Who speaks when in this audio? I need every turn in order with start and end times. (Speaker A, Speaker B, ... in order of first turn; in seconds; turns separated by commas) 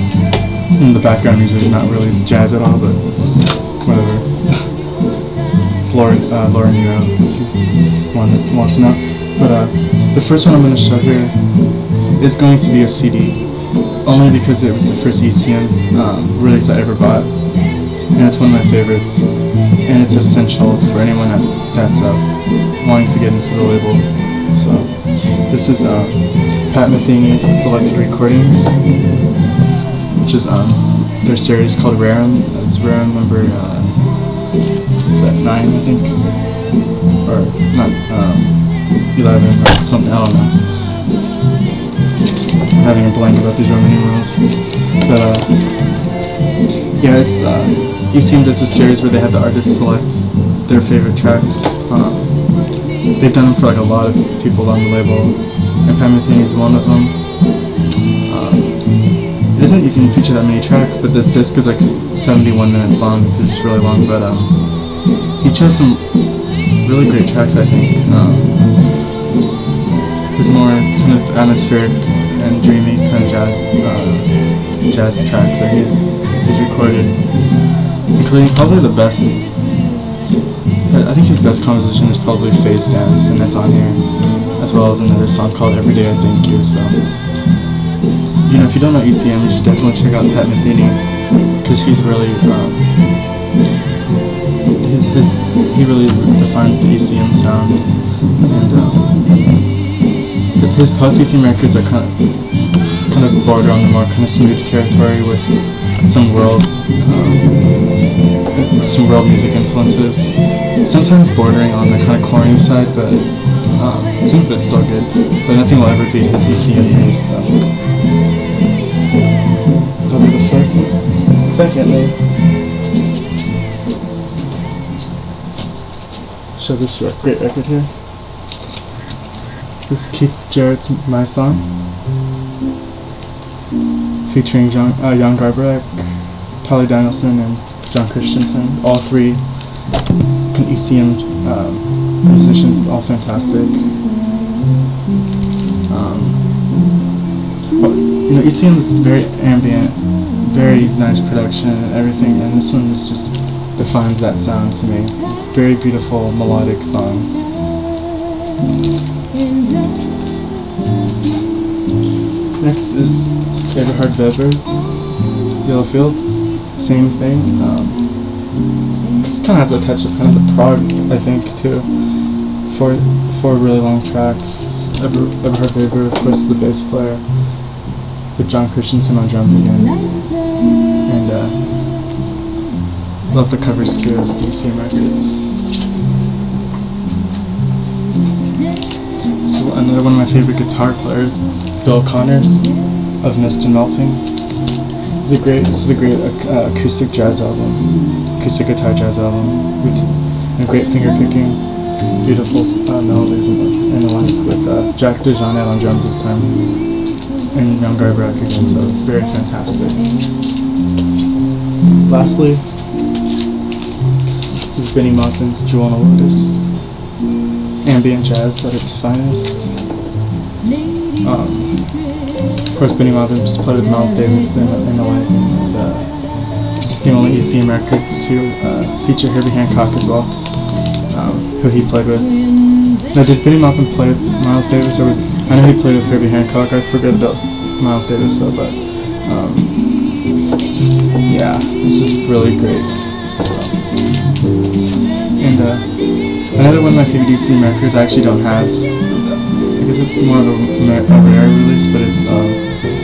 Speaker A: 0.8-4.7, Speaker A: 5.8-28.8, Speaker A: 30.2-34.4, Speaker A: 35.1-36.6, Speaker A: 37.2-40.6, Speaker A: 42.8-44.4, Speaker A: 45.0-45.8, Speaker A: 47.0-52.6, Speaker A: 53.2-57.3, Speaker A: 58.2-64.9, Speaker A: 65.4-68.8, Speaker A: 70.3-77.5, Speaker A: 78.2-79.6, Speaker A: 80.9-87.1, Speaker A: 88.4-93.0, Speaker A: 94.8-100.0, Speaker A: 100.5-107.9, Speaker A: 108.5-117.7, Speaker A: 120.0-122.2, Speaker A: 126.5-127.9, Speaker A: 129.8-131.7, Speaker A: 134.2-139.4, Speaker A: 140.5-143.8, Speaker A: 145.9-146.5, Speaker A: 147.8-157.4, Speaker A: 162.6-164.9, Speaker A: 165.6-168.3, Speaker A: 169.2-171.9, Speaker A: 172.6-177.2, Speaker A: 178.3-180.0, Speaker A: 181.1-181.6, Speaker A: 183.3-185.3, Speaker A: 189.4-192.7, Speaker A: 193.2-194.2, Speaker A: 195.2-201.6, Speaker A: 202.2-206.7, Speaker A: 207.5-210.0, Speaker A: 212.0-212.6, Speaker A: 214.7-216.7, Speaker A: 217.8-219.7, Speaker A: 221.2-221.9, Speaker A: 222.7-226.2, Speaker A: 226.8-230.3, Speaker A: 231.1-240.1, Speaker A: 241.2-243.8, Speaker A: 245.4-252.7